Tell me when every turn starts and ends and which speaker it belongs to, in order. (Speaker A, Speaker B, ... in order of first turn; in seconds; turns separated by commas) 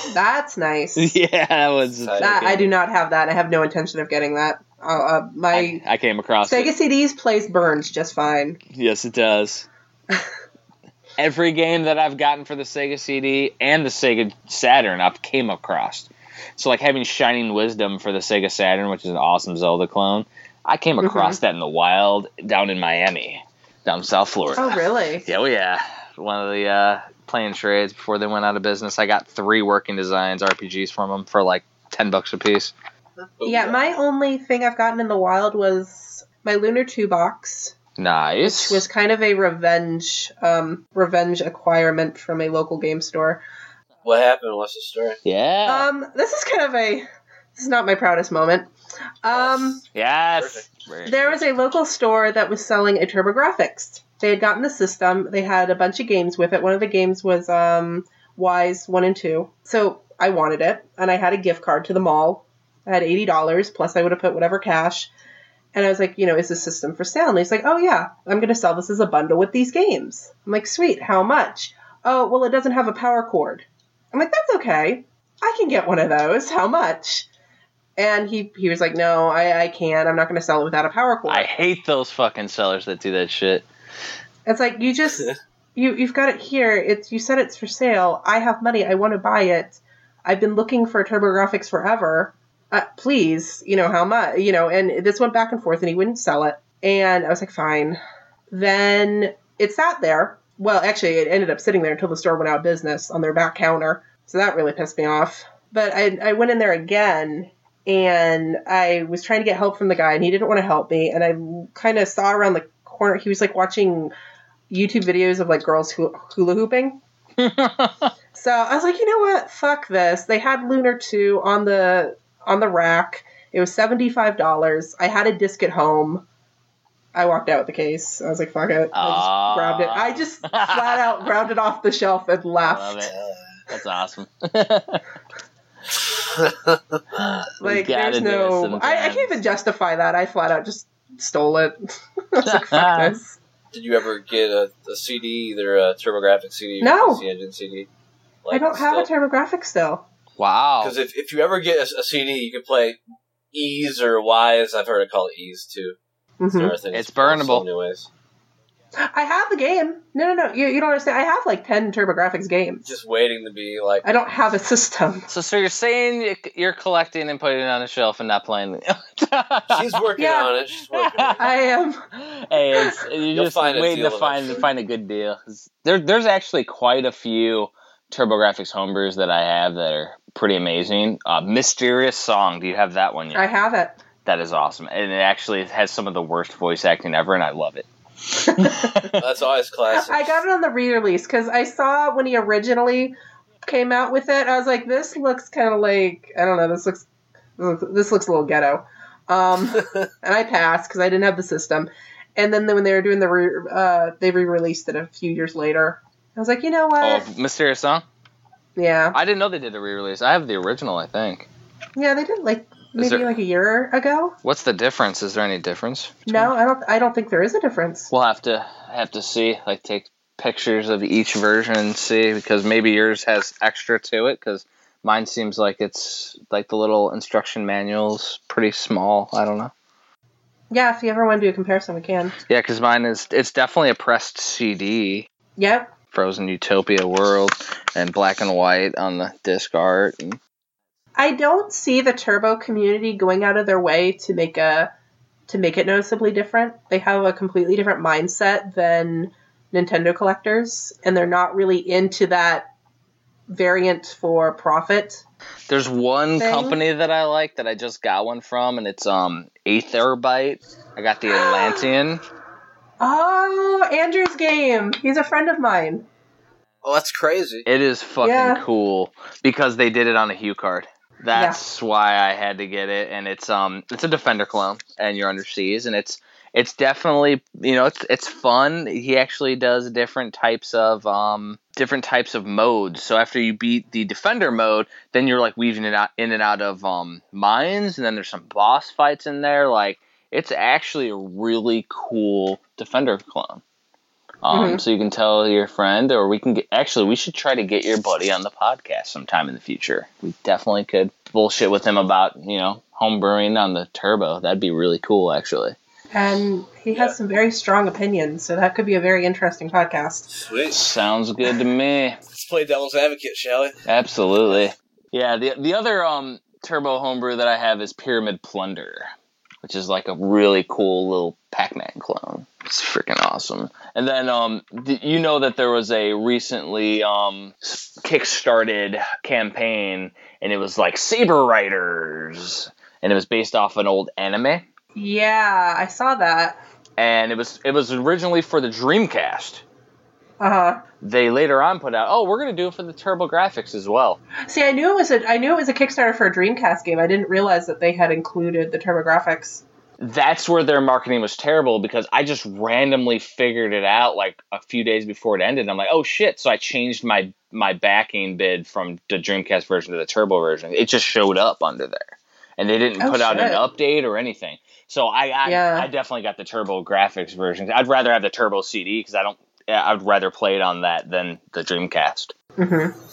Speaker A: 0.1-1.2, Speaker B: 1.0-2.7, Speaker C: 1.9-2.6, Speaker A: 2.2-5.8, Speaker B: 5.5-6.7, Speaker A: 6.4-8.6, Speaker B: 8.7-9.7, Speaker B: 11.2-32.7, Speaker A: 21.0-21.4, Speaker A: 24.6-25.3, Speaker C: 33.4-33.9, Speaker A: 33.5-37.8, Speaker B: 38.0-38.9, Speaker A: 38.4-43.4, Speaker C: 44.0-45.2, Speaker B: 45.2-45.9, Speaker A: 45.6-48.7, Speaker A: 49.2-49.8, Speaker C: 49.3-50.7, Speaker B: 50.0-51.4, Speaker A: 51.1-65.1, Speaker A: 65.7-77.3, Speaker A: 78.0-81.5, Speaker B: 81.3-83.7, Speaker A: 84.5-98.0, Speaker A: 98.5-114.1, Speaker A: 114.7-117.0, Speaker B: 117.4-118.1, Speaker A: 118.3-126.2, Speaker A: 127.1-133.1, Speaker B: 128.9-131.3, Speaker B: 132.6-133.1, Speaker C: 133.1-133.4, Speaker B: 133.7-135.0, Speaker C: 136.3-136.8, Speaker A: 137.6-143.4, Speaker B: 137.6-139.4, Speaker B: 142.4-143.2, Speaker C: 143.7-147.9, Speaker A: 146.8-147.2, Speaker C: 148.4-149.1, Speaker A: 148.5-150.1, Speaker B: 150.4-151.0, Speaker C: 150.8-153.0, Speaker C: 153.5-156.0, Speaker A: 156.4-156.8, Speaker C: 156.5-158.1, Speaker B: 156.9-157.7, Speaker A: 159.0-162.9, Speaker C: 162.9-164.1, Speaker A: 164.0-165.3, Speaker B: 165.3-170.1, Speaker C: 169.7-171.6, Speaker A: 170.2-170.5, Speaker B: 170.9-171.5, Speaker A: 171.4-172.0, Speaker B: 172.1-183.5, Speaker A: 172.8-173.0, Speaker C: 173.3-174.7, Speaker A: 183.3-184.0, Speaker B: 184.2-189.2, Speaker A: 188.5-188.9, Speaker C: 189.1-190.4, Speaker A: 189.9-197.1, Speaker A: 197.6-207.3, Speaker C: 199.8-200.0, Speaker B: 207.0-208.1, Speaker A: 208.8-209.2, Speaker B: 209.1-211.5, Speaker A: 212.0-214.4, Speaker B: 213.0-213.3, Speaker B: 214.4-216.5, Speaker A: 216.3-218.1, Speaker B: 218.1-229.7, Speaker A: 230.7-232.4, Speaker B: 232.5-235.3, Speaker A: 235.6-235.9, Speaker B: 236.1-240.4, Speaker A: 241.2-244.9, Speaker A: 245.5-252.7, Speaker A: 253.5-255.2, Speaker B: 255.7-262.2, Speaker A: 256.4-256.8, Speaker A: 261.4-261.8, Speaker A: 263.0-266.1, Speaker C: 266.8-267.7, Speaker B: 267.7-293.6, Speaker A: 268.2-268.6, Speaker A: 271.3-271.6, Speaker B: 294.4-305.8, Speaker A: 294.5-294.8, Speaker A: 306.1-310.3, Speaker C: 310.3-310.8, Speaker B: 310.7-312.2, Speaker C: 312.3-313.8, Speaker B: 313.9-319.1, Speaker B: 319.6-334.6, Speaker A: 334.9-336.6, Speaker B: 337.0-339.6, Speaker A: 340.4-340.8, Speaker B: 341.0-344.2, Speaker A: 344.5-349.6, Speaker B: 350.0-372.3, Speaker A: 363.0-363.6, Speaker A: 365.4-365.9, Speaker A: 372.6-372.9